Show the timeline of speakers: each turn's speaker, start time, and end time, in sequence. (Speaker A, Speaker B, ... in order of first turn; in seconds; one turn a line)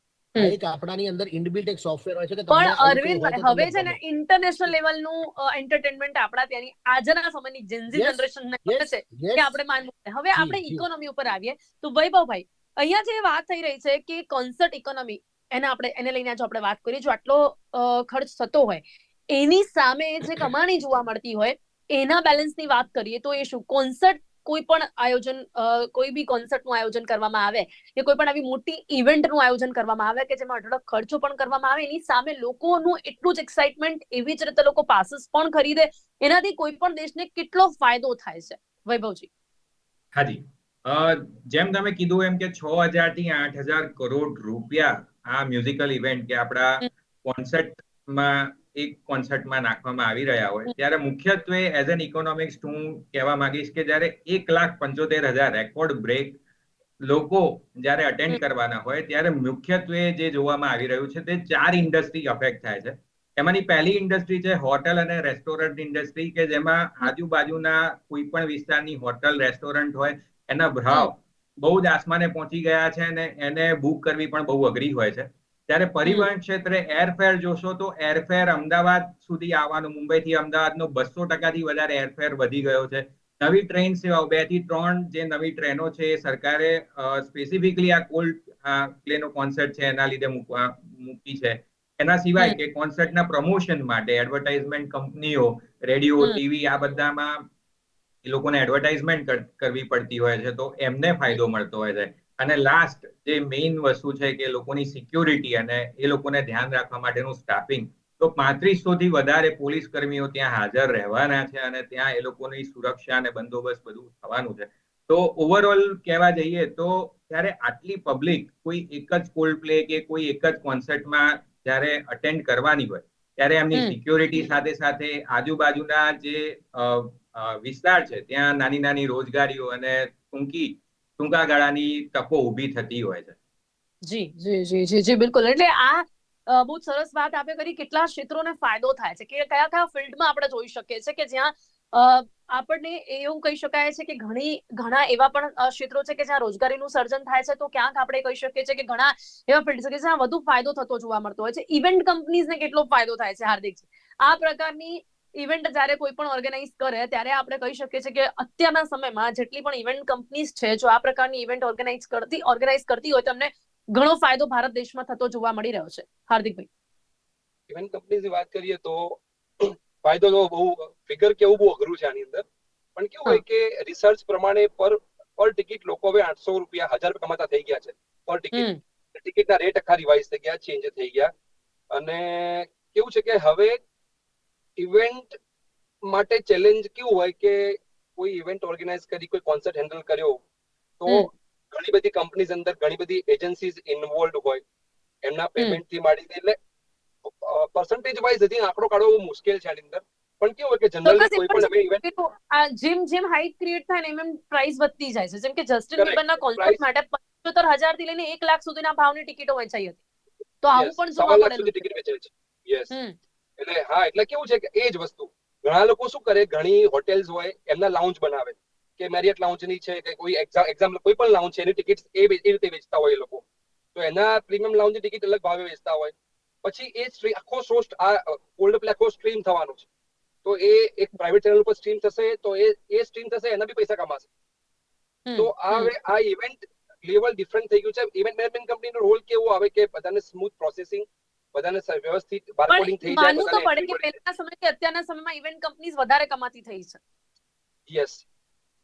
Speaker A: 0.4-4.0
Speaker B: 2.5-39.3
Speaker A: 7.9-9.6
Speaker A: 10.3-10.8
Speaker C: 40.1-56.4
Speaker C: 57.0-97.4
Speaker C: 98.2-133.4
Speaker B: 134.1-166.7
Speaker D: 167.7-172.4
Speaker D: 173.0-181.3
Speaker B: 178.5-178.8
Speaker D: 181.9-183.8
Speaker D: 184.8-185.4
Speaker D: 186.1-190.4
Speaker D: 191.0-194.6
Speaker D: 195.2-196.6
Speaker D: 197.3-202.0
Speaker B: 201.1-210.0
Speaker D: 206.0-206.8
Speaker B: 210.6-211.8
Speaker D: 210.7-212.9
Speaker B: 212.9-213.2
Speaker D: 213.6-223.4
Speaker D: 223.9-229.9
Speaker D: 230.4-234.3
Speaker B: 235.3-235.9
Speaker D: 235.4-244.1
Speaker B: 242.7-247.0
Speaker D: 247.9-248.2